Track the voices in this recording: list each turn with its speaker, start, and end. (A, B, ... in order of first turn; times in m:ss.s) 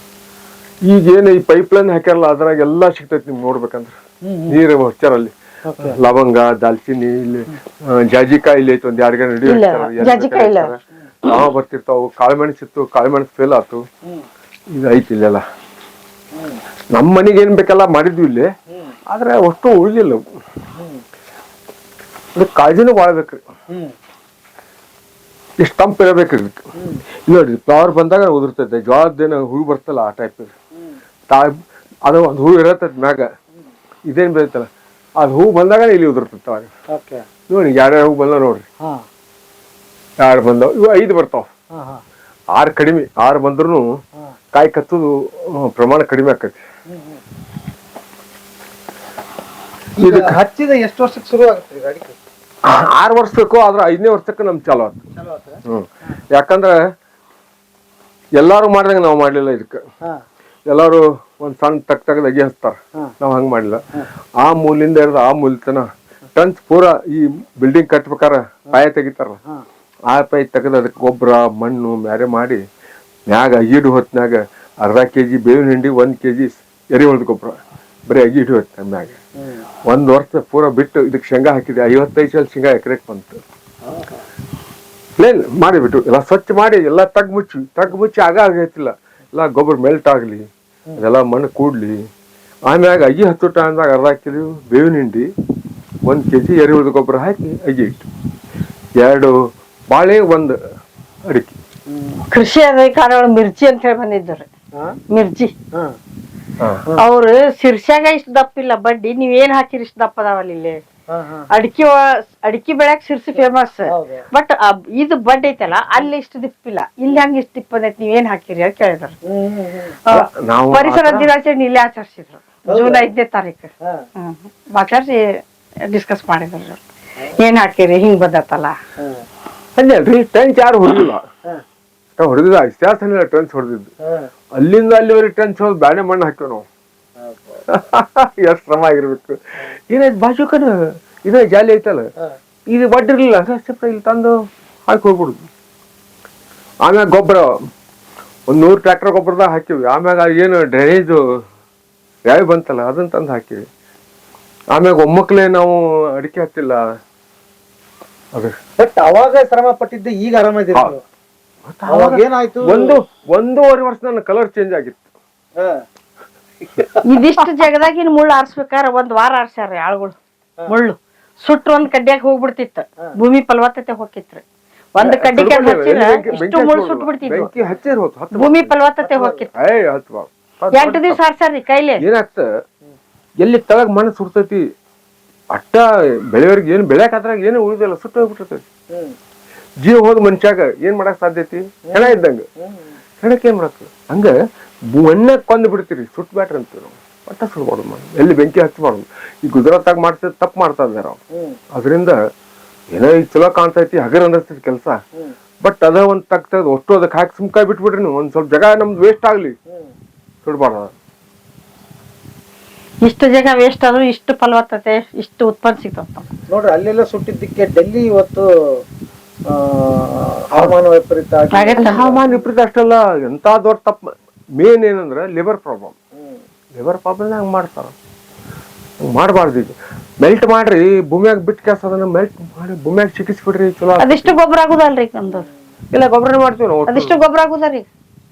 0:00.9-0:04.0 A
0:04.2-0:04.6 B
0:04.5-0:13.8 A
0:05.7-0:06.0 B
0:09.4-0:10.7 C
0:14.7-0:15.4 A
0:16.3-0:16.6 B
0:16.9-0:18.5 A
0:19.1-0:20.2 A
0:20.8-0:21.0 B
0:22.4-0:23.4 A
0:25.6-0:26.6 A
0:26.8-0:27.0 B
0:27.3-0:30.5 A
0:31.3-0:33.3 A
0:34.1-0:36.7 A
0:36.9-0:37.2 B
0:37.5-0:38.6 A
0:40.2-0:41.5 A
0:41.7-0:42.0 B
0:42.5-0:43.8 A
0:44.5-0:46.6 A
0:46.9-0:47.2 B
0:50.0-0:52.2 B
0:50.0-0:50.4 A
0:52.6-0:55.0 A
0:55.2-0:55.6 B
0:55.7-0:56.8 A
0:58.4-0:59.8 A
1:00.7-1:03.9 A
1:04.4-1:09.4 A
1:10.1-1:12.6 A
1:13.3-1:19.2 A
1:19.9-1:23.4 A
1:23.8-1:24.2 B
1:25.2-1:30.5 A
1:31.0-1:32.0 A
1:32.7-1:35.3 A
1:36.0-1:38.1 A
1:39.0-1:39.4 A
1:39.9-1:40.6 A
1:41.3-1:41.6 A
1:41.9-1:42.2 B
1:42.3-1:44.5 C
1:44.7-1:45.0 B
1:45.1-1:45.5 C
1:46.6-1:46.9 A
1:47.0-1:50.8 C
1:51.1-1:51.5 B
1:51.5-1:59.2 C
1:53.9-1:54.3 B
1:59.2-2:00.0 B
2:00.0-2:05.3 C
2:00.1-2:01.3 A
2:02.7-2:03.1 B
2:05.9-2:06.8 C
2:07.3-2:08.8 C
2:09.0-2:09.2 B
2:09.8-2:11.2 A
2:12.2-2:13.9 A
2:14.0-2:14.3 B
2:14.6-2:16.7 A
2:17.2-2:17.6 B
2:17.7-2:22.1 A
2:22.7-2:24.4 A
2:24.9-2:25.5 A
2:26.8-2:27.6 A
2:28.5-2:31.2 A
2:32.3-2:33.6 A
2:34.7-2:36.9 A
2:38.8-2:41.0 B
2:41.7-2:45.0 A
2:41.9-2:43.0 B
2:45.6-2:45.8 B
2:47.0-2:50.2 C
2:50.7-2:54.4 C
2:55.0-2:57.5 C
2:55.0-2:58.8 A
2:58.3-2:59.5 C
2:59.0-2:59.5 B
2:59.6-3:01.2 A
3:00.7-3:02.0 C
3:02.0-3:02.5 A
3:03.4-3:04.6 A
3:05.5-3:08.6 A
3:09.8-3:12.4 A
3:11.9-3:12.9 B
3:13.2-3:14.3 A
3:14.9-3:21.2 A
3:21.8-3:22.2 A
3:22.9-3:25.0 A
3:25.6-3:29.6 A
3:30.4-3:30.9 A
3:33.0-3:36.2 C
3:36.5-3:38.8 B
3:39.5-3:42.3 B
3:41.5-3:42.1 C
3:41.8-3:46.0 A
3:46.8-3:48.0 A
3:49.0-3:54.4 A
3:54.0-3:55.5 C
3:55.9-3:57.2 A
3:56.9-3:57.9 C